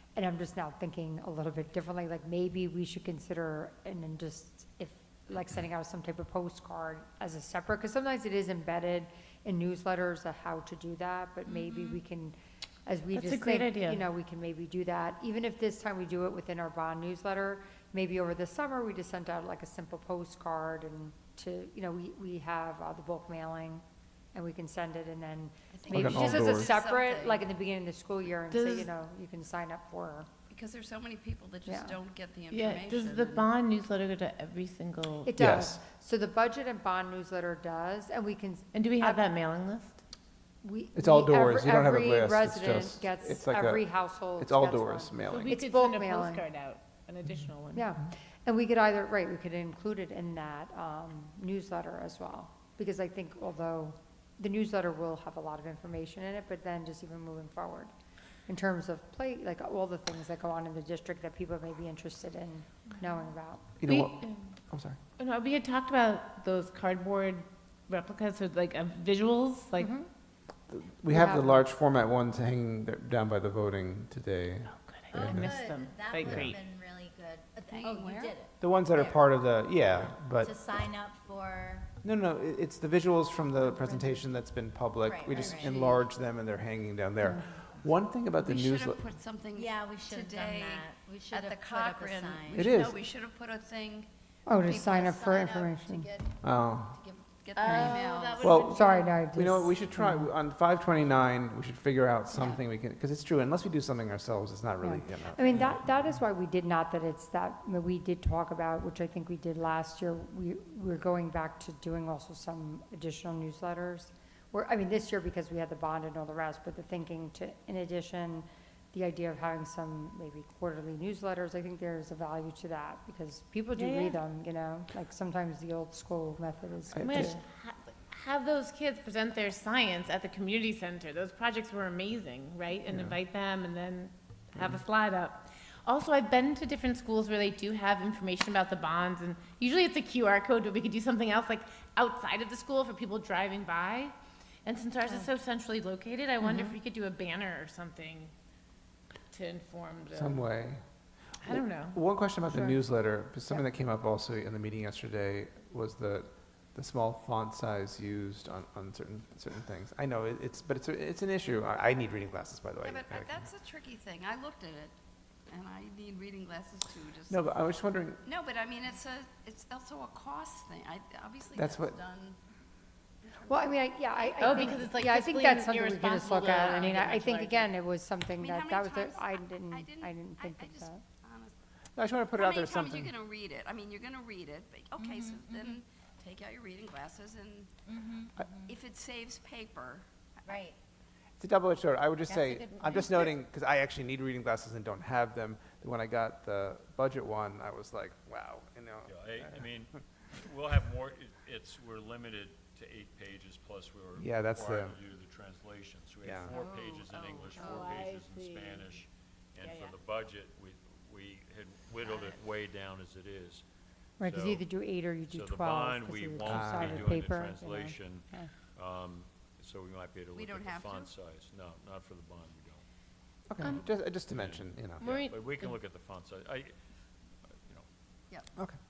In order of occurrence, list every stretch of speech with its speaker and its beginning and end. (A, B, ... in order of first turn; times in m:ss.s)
0:00.2-0:12.3 A
0:12.8-0:30.3 A
0:13.1-0:14.0 B
0:25.7-0:27.4 C
0:25.9-0:26.8 D
0:28.5-0:28.9 B
0:30.5-0:33.5 C
0:31.7-0:31.9 A
0:32.5-0:35.3 B
0:35.2-0:39.2 A
0:35.4-0:35.8 D
0:38.7-0:40.0 B
0:40.6-0:46.4 A
0:40.9-0:45.6 D
0:45.3-0:47.9 B
0:47.7-0:57.9 A
0:58.5-1:03.6 A
1:03.8-1:05.0 D
1:03.9-1:04.5 B
1:05.2-1:09.9 B
1:09.8-1:10.1 A
1:10.7-1:15.6 D
1:11.1-1:11.6 A
1:14.7-1:16.6 B
1:15.1-1:19.3 E
1:16.2-1:16.5 D
1:17.7-1:18.3 C
1:18.6-1:20.5 D
1:20.0-1:21.9 E
1:22.0-1:29.0 D
1:25.0-1:25.9 E
1:25.4-1:26.0 C
1:27.2-1:27.5 A
1:28.4-1:38.7 C
1:29.5-1:32.6 E
1:32.5-1:33.0 D
1:34.5-1:36.1 A
1:36.4-1:37.0 D
1:37.6-1:39.2 B
1:38.4-1:45.8 D
1:38.7-1:40.3 A
1:44.8-2:07.4 A
2:03.7-2:04.2 B
2:06.9-2:07.3 D
2:07.0-2:28.3 B
2:12.9-2:13.2 D
2:29.3-2:30.4 B
2:30.1-2:30.8 D
2:31.4-2:32.7 B
2:31.4-2:43.3 D
2:42.8-2:44.9 C
2:45.5-2:47.4 C
2:47.3-2:48.2 D
2:48.2-2:52.4 C
2:51.6-2:52.0 D
2:53.2-2:54.9 C
2:53.4-3:01.0 A
2:54.4-2:57.7 B
2:56.3-2:56.7 C
2:58.4-3:01.5 C
3:02.0-3:03.1 D
3:02.3-3:07.8 C
3:05.0-3:05.8 E
3:07.8-3:08.7 E
3:08.7-3:10.6 C
3:10.4-3:10.8 E
3:11.4-3:19.3 D
3:12.3-3:13.3 B
3:19.0-3:33.6 F
3:24.2-3:25.0 D
3:26.2-3:26.5 D
3:26.5-3:28.0 C
3:27.4-3:28.9 B
3:29.6-3:30.0 B
3:32.0-3:32.4 C
3:34.2-3:34.7 F
3:34.2-3:38.5 A
3:35.3-3:42.8 F
3:36.4-3:37.1 D
3:40.3-3:41.1 C
3:43.5-3:45.0 D
3:43.6-3:46.8 F
3:45.0-3:45.8 B
3:47.5-3:47.9 F